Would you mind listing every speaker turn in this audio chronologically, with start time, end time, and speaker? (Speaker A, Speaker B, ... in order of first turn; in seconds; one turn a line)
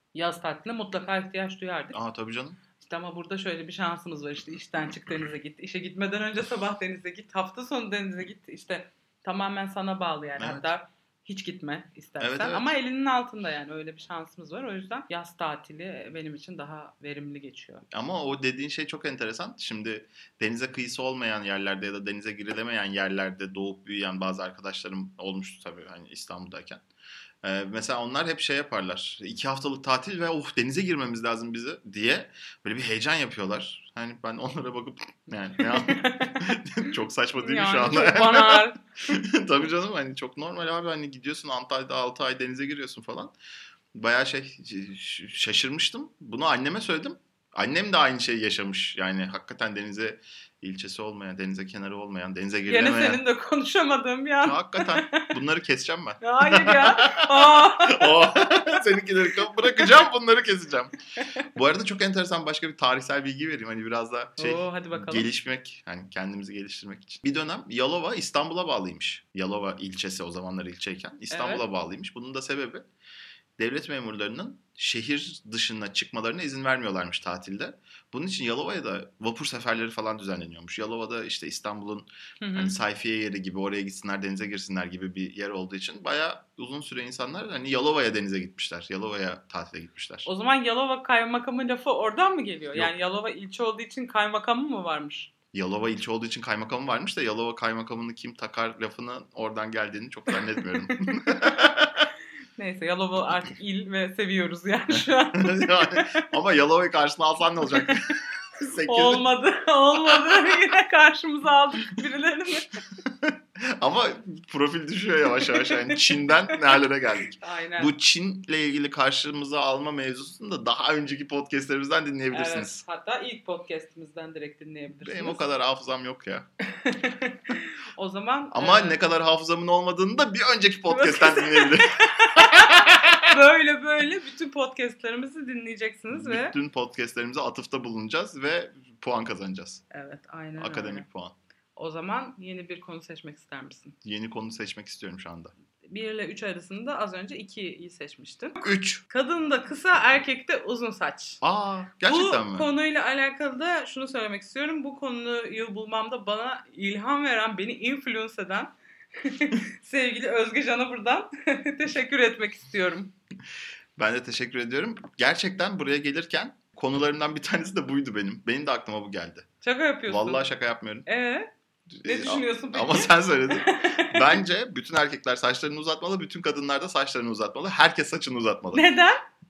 Speaker A: 0.1-2.0
Speaker B: 1.9-2.6
Speaker A: 2.8-17.8
Speaker B: 10.4-10.7
Speaker B: 12.2-12.7
Speaker B: 17.9-26.8
Speaker B: 27.4-43.3
Speaker A: 35.6-36.6
Speaker A: 37.4-38.8
Speaker B: 43.9-53.2
Speaker A: 52.7-55.3
Speaker B: 54.4-60.9
Speaker A: 56.2-58.6
Speaker A: 59.4-59.9
Speaker A: 61.2-61.5
Speaker B: 61.5-72.8
Speaker A: 64.4-65.3
Speaker A: 71.3-71.6
Speaker B: 73.6-90.3
Speaker A: 82.4-82.8
Speaker A: 90.2-95.3
Speaker B: 95.5-102.1
Speaker A: 100.9-101.6
Speaker A: 102.5-106.2
Speaker B: 105.0-109.2
Speaker A: 107.7-108.1
Speaker A: 108.8-112.8
Speaker B: 113.0-122.8
Speaker A: 117.4-117.9
Speaker A: 122.3-125.4
Speaker B: 125.0-126.5
Speaker A: 126.6-129.0
Speaker B: 128.5-133.3
Speaker A: 130.9-136.5
Speaker B: 136.1-139.8
Speaker A: 139.9-141.1
Speaker B: 140.6-141.3
Speaker A: 141.8-144.0
Speaker B: 144.0-145.5
Speaker A: 145.8-151.4
Speaker B: 148.6-149.0
Speaker B: 151.4-152.7
Speaker A: 152.0-163.1
Speaker B: 164.0-169.5
Speaker A: 169.6-170.5
Speaker B: 170.1-171.1
Speaker A: 171.1-171.5
Speaker B: 171.9-178.9
Speaker A: 172.0-174.4
Speaker A: 178.7-179.2